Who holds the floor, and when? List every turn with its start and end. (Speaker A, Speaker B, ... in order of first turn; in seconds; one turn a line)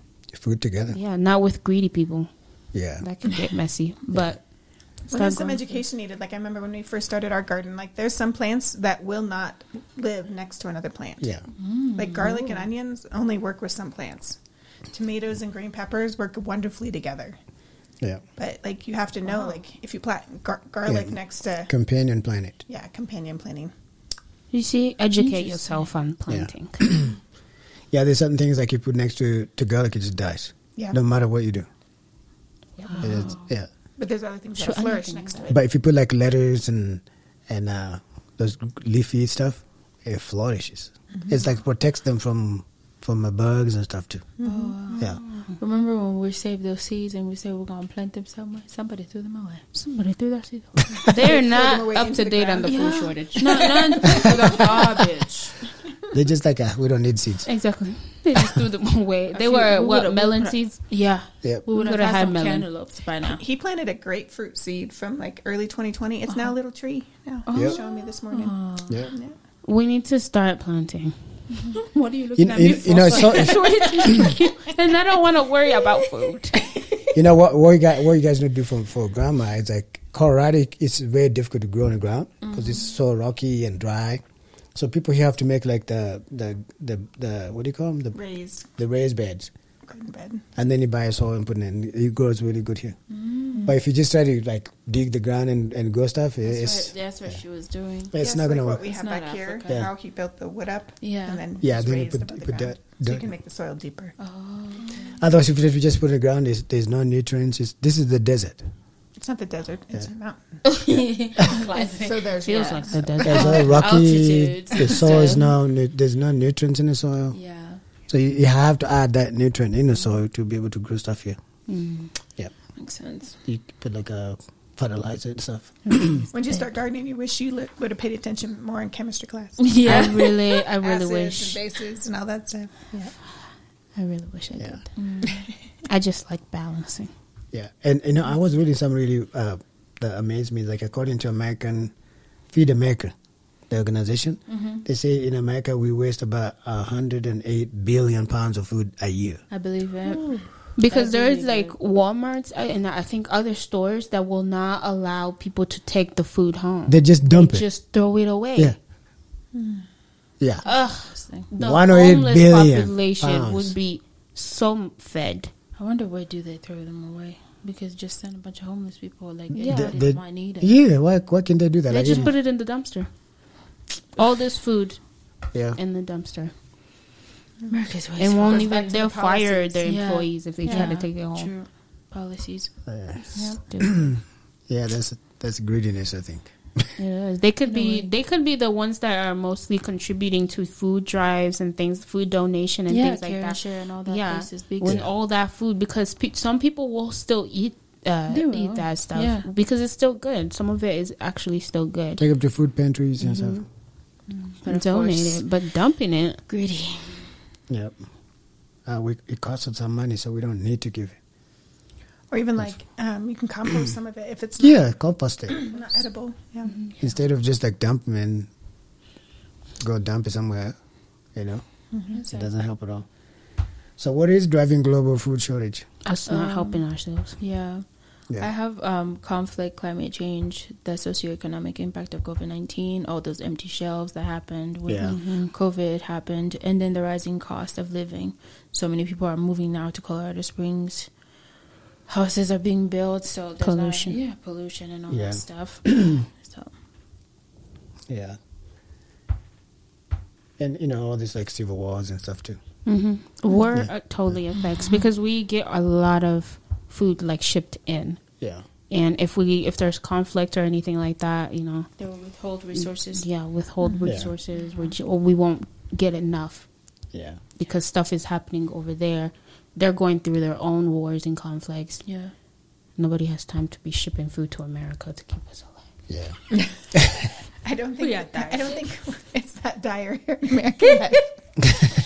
Speaker A: 0.3-1.0
Speaker B: 0.9-2.3
Speaker A: 2.7-3.0
Speaker B: 3.0-4.4
Speaker A: 4.1-4.4
Speaker C: 5.1-11.4
Speaker B: 5.1-5.8
Speaker A: 11.2-11.5
Speaker D: 11.6-12.7
Speaker C: 11.9-14.4
Speaker C: 14.9-17.4
Speaker C: 18.4-21.7
Speaker A: 20.9-22.6
Speaker C: 22.7-23.7
Speaker B: 24.5-26.9
Speaker D: 25.2-25.9
Speaker A: 26.3-27.2
Speaker A: 27.9-31.7
Speaker B: 32.8-33.3
Speaker D: 32.9-33.5
Speaker A: 33.0-33.7
Speaker C: 34.0-35.6
Speaker B: 34.6-35.5
Speaker A: 35.5-44.3
Speaker C: 41.1-41.5
Speaker C: 44.4-45.0
Speaker D: 44.4-49.6
Speaker B: 45.2-45.5
Speaker B: 49.7-54.6
Speaker C: 51.1-53.0
Speaker D: 52.6-55.6
Speaker A: 56.1-57.5
Speaker B: 57.5-60.9
Speaker D: 59.3-63.4
Speaker B: 61.7-62.7
Speaker C: 63.2-69.4
Speaker D: 66.3-66.5
Speaker D: 67.5-69.1
Speaker B: 69.6-71.2
Speaker D: 71.5-74.7
Speaker A: 72.3-74.4
Speaker B: 74.0-76.6
Speaker D: 76.5-77.2
Speaker A: 77.1-84.2
Speaker D: 82.4-82.9
Speaker A: 84.8-88.2
Speaker C: 88.1-88.7
Speaker A: 88.8-89.5
Speaker C: 89.9-90.5
Speaker A: 90.6-93.0
Speaker D: 93.1-93.8
Speaker A: 93.7-97.4
Speaker D: 96.4-98.2
Speaker A: 98.1-98.9
Speaker C: 98.2-104.2
Speaker D: 98.8-99.9
Speaker D: 101.0-101.5
Speaker A: 101.6-103.3
Speaker D: 104.2-105.2
Speaker A: 105.2-108.6
Speaker C: 109.2-110.6
Speaker D: 110.7-115.5
Speaker C: 111.5-113.6
Speaker B: 112.4-113.9
Speaker A: 113.2-117.4
Speaker B: 114.8-115.5
Speaker D: 117.3-117.8
Speaker A: 118.1-121.4
Speaker B: 121.7-122.1
Speaker D: 122.8-123.4
Speaker A: 123.5-126.3
Speaker B: 125.9-126.7
Speaker C: 126.3-130.1
Speaker D: 129.6-130.6
Speaker B: 129.8-131.6
Speaker C: 130.8-133.1
Speaker B: 134.0-135.3
Speaker D: 135.0-135.5
Speaker B: 135.9-137.1
Speaker A: 137.5-141.9
Speaker A: 142.5-143.1
Speaker A: 143.7-149.4
Speaker D: 144.5-144.8
Speaker D: 149.5-151.8
Speaker B: 150.8-158.8
Speaker A: 156.9-157.7
Speaker C: 159.5-159.9
Speaker D: 160.6-161.5
Speaker B: 160.7-165.5
Speaker A: 161.6-163.8
Speaker D: 165.8-170.8
Speaker B: 169.5-169.9
Speaker A: 169.7-172.3
Speaker B: 171.9-173.1
Speaker B: 174.2-175.0
Speaker A: 175.5-175.8
Speaker B: 175.8-176.5
Speaker D: 177.7-179.1
Speaker B: 178.2-181.5
Speaker C: 178.4-179.8
Speaker D: 179.8-182.7
Speaker A: 182.9-186.9
Speaker B: 183.3-184.1
Speaker B: 187.0-202.2
Speaker D: 187.7-188.1
Speaker D: 192.9-195.0
Speaker A: 194.8-195.1
Speaker D: 198.3-199.5
Speaker A: 202.2-203.6
Speaker B: 203.2-203.6
Speaker D: 204.3-205.4
Speaker B: 204.7-206.4
Speaker D: 206.5-207.3
Speaker A: 207.7-208.0
Speaker A: 208.9-211.2
Speaker C: 212.3-214.9
Speaker A: 214.6-215.7
Speaker C: 215.5-216.8
Speaker A: 217.0-218.5
Speaker A: 219.8-220.8
Speaker A: 221.3-221.6
Speaker C: 221.9-222.2
Speaker D: 222.1-222.5
Speaker A: 222.2-223.1
Speaker A: 224.0-225.9
Speaker B: 226.1-227.4
Speaker D: 226.3-226.8
Speaker D: 227.4-241.1
Speaker A: 234.9-235.2
Speaker B: 235.0-235.5
Speaker D: 242.1-246.7
Speaker B: 243.6-244.2
Speaker A: 245.1-246.2
Speaker A: 248.1-248.4
Speaker A: 250.6-252.6
Speaker B: 252.9-258.2
Speaker A: 253.7-254.4
Speaker B: 258.9-261.9
Speaker D: 262.0-263.3
Speaker B: 262.8-266.7
Speaker D: 263.8-264.2
Speaker A: 264.0-264.3
Speaker A: 267.1-267.4
Speaker B: 267.6-272.1
Speaker D: 272.0-272.3
Speaker B: 273.0-275.8
Speaker A: 276.1-276.4
Speaker A: 276.9-277.3
Speaker C: 277.6-281.2
Speaker D: 278.0-278.9